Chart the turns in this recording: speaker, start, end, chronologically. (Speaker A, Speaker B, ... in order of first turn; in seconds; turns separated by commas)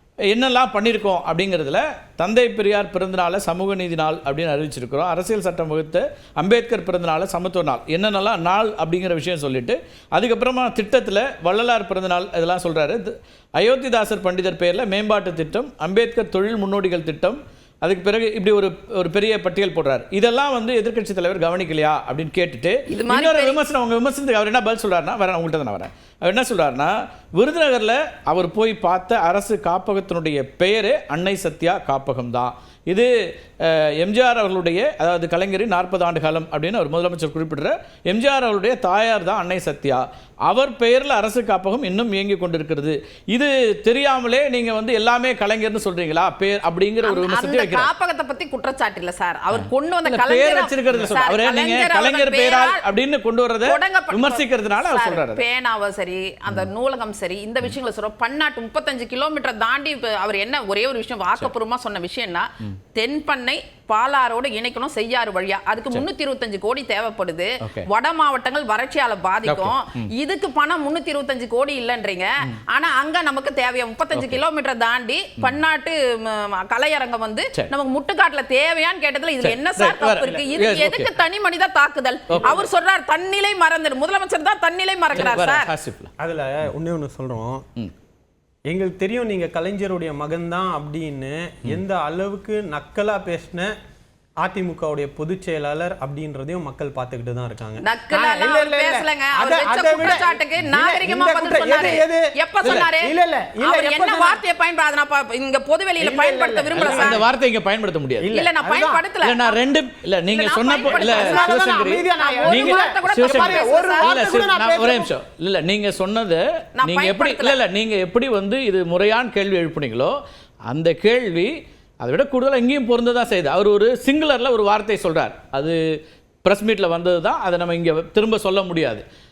Speaker A: 0.3-47.9, Speaker B: 22.9-23.6, Speaker B: 47.0-52.8, Speaker A: 49.5-55.4, Speaker B: 53.6-85.7, Speaker A: 69.5-70.1, Speaker A: 74.1-74.4, Speaker A: 79.4-81.1, Speaker A: 82.3-82.6, Speaker C: 82.3-82.6, Speaker A: 85.1-86.1, Speaker C: 86.2-87.6, Speaker C: 88.7-93.7, Speaker C: 94.4-104.4, Speaker B: 97.8-107.2, Speaker A: 102.6-102.9, Speaker C: 106.0-107.2, Speaker A: 106.7-108.3, Speaker C: 108.2-109.0, Speaker B: 108.3-109.6, Speaker A: 109.2-125.8, Speaker B: 110.2-114.5, Speaker C: 110.8-115.1, Speaker B: 116.8-117.6, Speaker A: 126.4-129.0